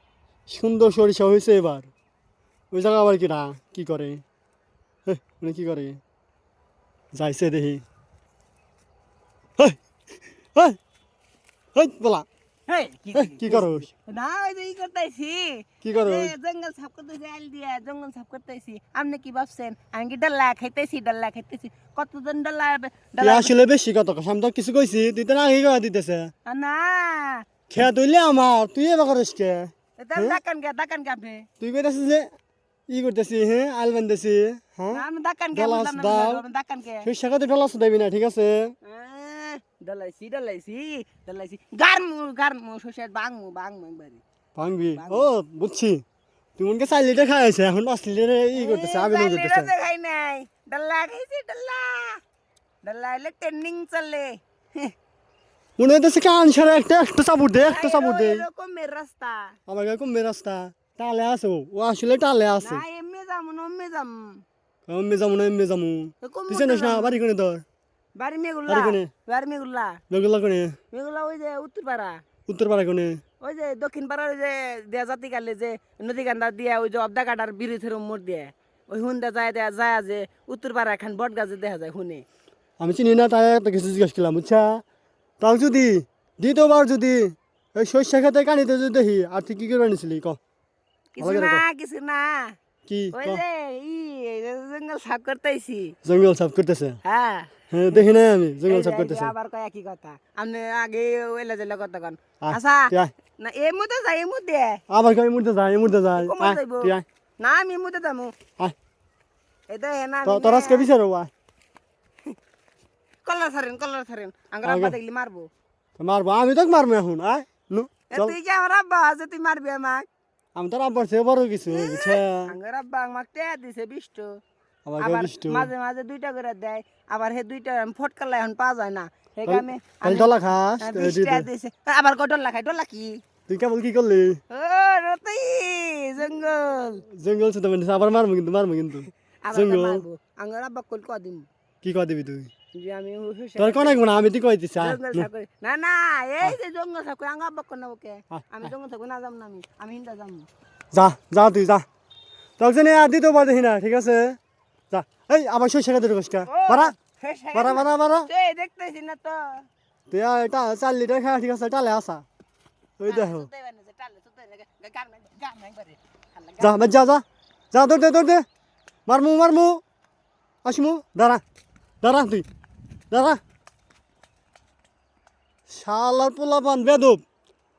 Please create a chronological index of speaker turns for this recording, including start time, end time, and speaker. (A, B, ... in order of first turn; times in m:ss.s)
0:00.5-0:01.9 A
0:02.7-0:04.2 A
0:05.0-0:06.0 A
0:07.1-0:07.8 A
0:11.7-0:12.3 A
0:12.7-0:23.5 B
0:13.1-0:13.9 A
0:15.8-0:16.3 A
0:23.2-0:26.3 A
0:26.4-0:27.4 B
0:27.7-0:30.4 A
0:30.0-0:31.5 B
0:31.6-0:32.3 A
0:32.9-0:36.4 A
0:34.9-0:37.1 B
0:37.0-0:38.7 A
0:38.8-0:44.2 B
0:44.6-0:46.0 A
0:44.9-0:45.3 B
0:46.6-0:49.7 A
0:48.5-0:52.2 B
0:52.8-0:54.9 B
0:55.8-0:58.4 A
0:57.6-0:59.6 B
0:59.7-1:02.8 A
1:02.6-1:04.4 B
1:04.9-1:07.6 A
1:06.2-1:07.2 B
1:08.2-1:10.0 B
1:08.7-1:09.1 A
1:10.1-1:10.8 A
1:10.9-1:12.2 B
1:12.5-1:13.2 A
1:13.4-1:22.2 B
1:22.8-1:24.8 A
1:25.4-1:30.4 A
1:31.2-1:32.6 B
1:31.2-1:31.6 A
1:32.9-1:33.4 A
1:33.1-1:35.9 B
1:36.0-1:37.0 A
1:37.0-1:37.5 B
1:37.7-1:39.3 A
1:38.7-1:44.8 B
1:42.4-1:43.1 A
1:44.9-1:47.0 A
1:46.2-1:48.3 B
1:49.7-1:50.9 B
1:50.2-1:51.3 A
1:53.2-1:55.5 B
1:54.6-1:55.0 A
1:56.0-1:58.4 A
1:58.1-2:00.1 B
2:00.5-2:02.5 A
2:01.7-2:04.4 B
2:04.8-2:05.7 A
2:05.0-2:13.2 B
2:09.4-2:11.5 A
2:13.5-2:14.4 A
2:14.5-2:17.0 B
2:17.1-2:20.0 A
2:19.4-2:21.5 B
2:21.8-2:22.5 A
2:22.7-2:24.1 B
2:23.6-2:25.3 A
2:24.8-2:30.5 B
2:28.3-2:28.7 A
2:30.9-2:31.8 A
2:32.6-2:34.4 A
2:34.9-2:36.9 A
2:36.5-2:39.7 B
2:37.5-2:38.3 A
2:40.1-2:42.2 A
2:43.0-2:43.5 A
2:43.0-2:46.8 B
2:46.6-2:48.4 A
2:49.1-2:49.8 A
2:50.6-2:51.4 A
2:52.0-2:52.4 A
2:53.1-2:53.4 A
2:55.7-2:57.2 A